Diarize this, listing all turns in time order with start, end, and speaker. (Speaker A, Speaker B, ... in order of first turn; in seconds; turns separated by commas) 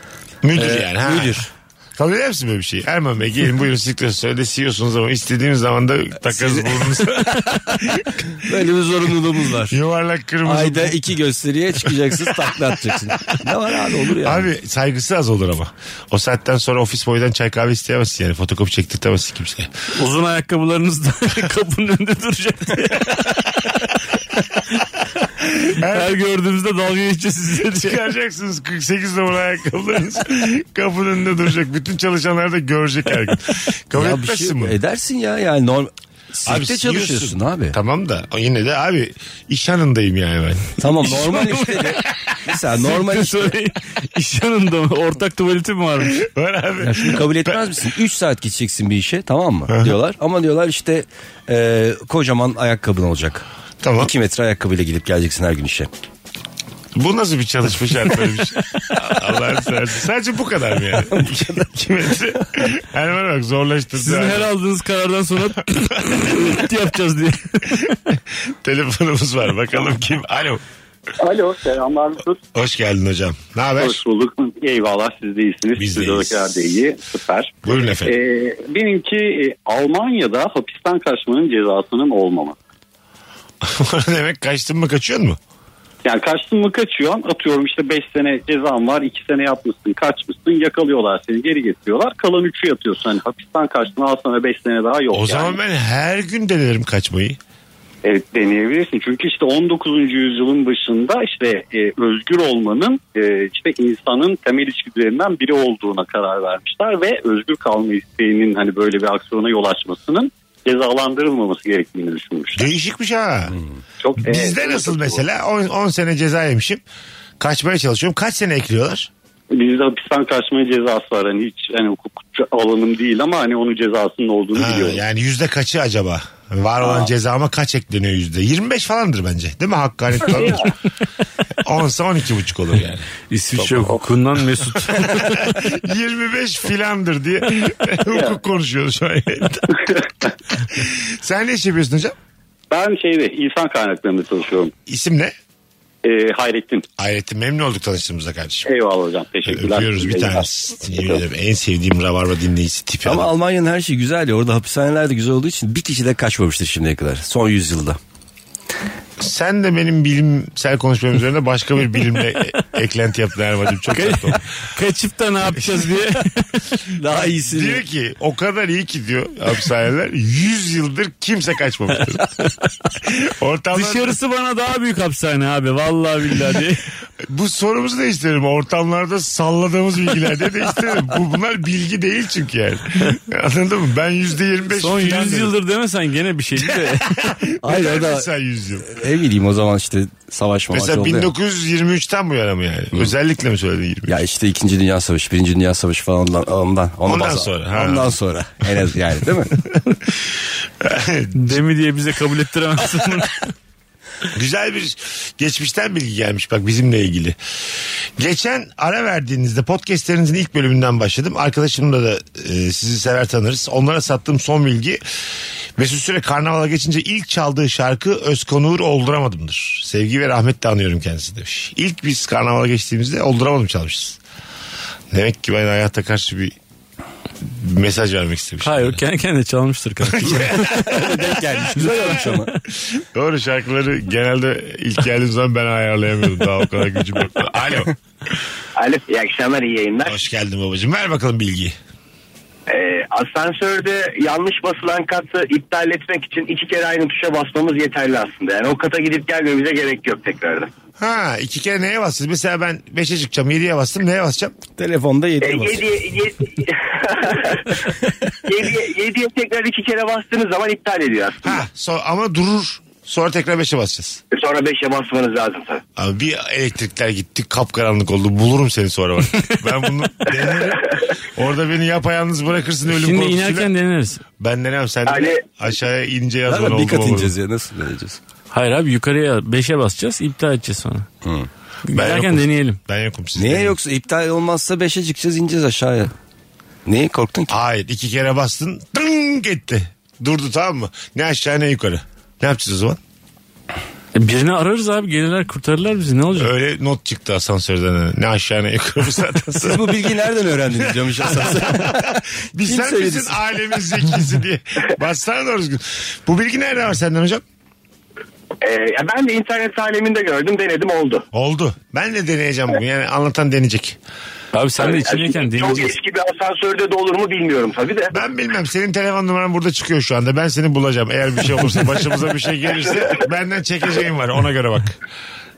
Speaker A: 0.4-8.4, Speaker B: 0.5-1.5, Speaker B: 6.3-7.1, Speaker B: 8.3-9.8, Speaker A: 9.7-11.0, Speaker B: 10.4-14.5, Speaker A: 14.2-19.7, Speaker C: 19.9-23.5, Speaker A: 25.6-26.2, Speaker C: 25.8-28.0, Speaker A: 27.6-34.8, Speaker B: 33.9-37.8, Speaker A: 36.5-40.7, Speaker B: 40.8-43.6, Speaker C: 41.0-42.0, Speaker C: 42.8-46.2, Speaker A: 46.0-47.6, Speaker B: 46.8-53.5, Speaker A: 49.7-49.9, Speaker A: 53.8-54.1, Speaker B: 54.0-55.9, Speaker A: 56.9-64.5, Speaker B: 61.1-61.7, Speaker C: 63.9-68.0, Speaker A: 66.0-66.3, Speaker A: 67.9-70.6, Speaker D: 71.2-72.4, Speaker A: 72.5-74.0, Speaker D: 73.7-82.5, Speaker A: 75.8-76.5, Speaker A: 77.6-78.2, Speaker A: 83.6-85.4, Speaker D: 86.0-95.6, Speaker A: 95.1-97.4, Speaker D: 98.0-112.7, Speaker A: 112.5-113.5, Speaker D: 114.0-115.2, Speaker A: 114.2-116.8, Speaker A: 117.4-119.1, Speaker D: 119.5-125.0, Speaker A: 124.5-130.7, Speaker D: 126.8-127.1, Speaker D: 130.3-130.7, Speaker A: 131.6-133.1, Speaker C: 133.3-135.6, Speaker A: 134.9-140.0, Speaker D: 138.1-138.4, Speaker A: 140.6-142.1, Speaker D: 142.7-144.7, Speaker A: 144.9-145.3, Speaker D: 146.0-146.8, Speaker A: 147.0-148.7, Speaker D: 148.7-151.2, Speaker A: 149.4-153.3, Speaker B: 153.0-158.0, Speaker A: 159.2-164.4, Speaker C: 163.9-166.6, Speaker A: 165.6-165.9, Speaker B: 166.9-167.8, Speaker A: 167.1-172.2, Speaker A: 173.0-174.2, Speaker C: 173.7-176.8, Speaker A: 177.3-185.5, Speaker C: 184.7-187.3, Speaker A: 186.6-188.9, Speaker B: 187.6-188.3, Speaker B: 188.8-191.3, Speaker A: 190.7-194.2, Speaker B: 194.1-199.6, Speaker A: 197.1-198.2, Speaker A: 199.7-200.3, Speaker A: 200.8-201.6, Speaker C: 201.3-203.5, Speaker A: 204.3-215.0, Speaker A: 215.8-224.2, Speaker A: 225.1-226.5, Speaker A: 227.4-229.0, Speaker C: 228.6-231.0, Speaker A: 230.1-231.1, Speaker B: 230.3-232.5, Speaker C: 231.7-232.5, Speaker A: 232.9-237.9, Speaker E: 238.8-240.2, Speaker A: 240.0-241.8, Speaker E: 242.7-250.7, Speaker A: 251.0-254.6, Speaker B: 254.8-256.0, Speaker E: 255.4-257.8, Speaker E: 258.4-261.6, Speaker A: 261.4-264.2, Speaker E: 264.3-265.8, Speaker A: 265.9-273.7, Speaker C: 272.9-274.2, Speaker A: 274.4-277.3, Speaker E: 275.1-275.4, Speaker B: 276.5-278.2, Speaker C: 278.5-281.1, Speaker C: 281.9-282.8, Speaker A: 281.9-283.8, Speaker B: 283.4-286.1, Speaker B: 286.9-287.5, Speaker A: 287.5-293.0, Speaker C: 294.1-296.5, Speaker A: 296.4-300.0, Speaker B: 299.6-303.4, Speaker A: 300.9-307.4, Speaker E: 308.6-311.2, Speaker A: 311.3-314.0, Speaker C: 314.5-315.9, Speaker E: 314.8-318.1, Speaker A: 318.1-324.9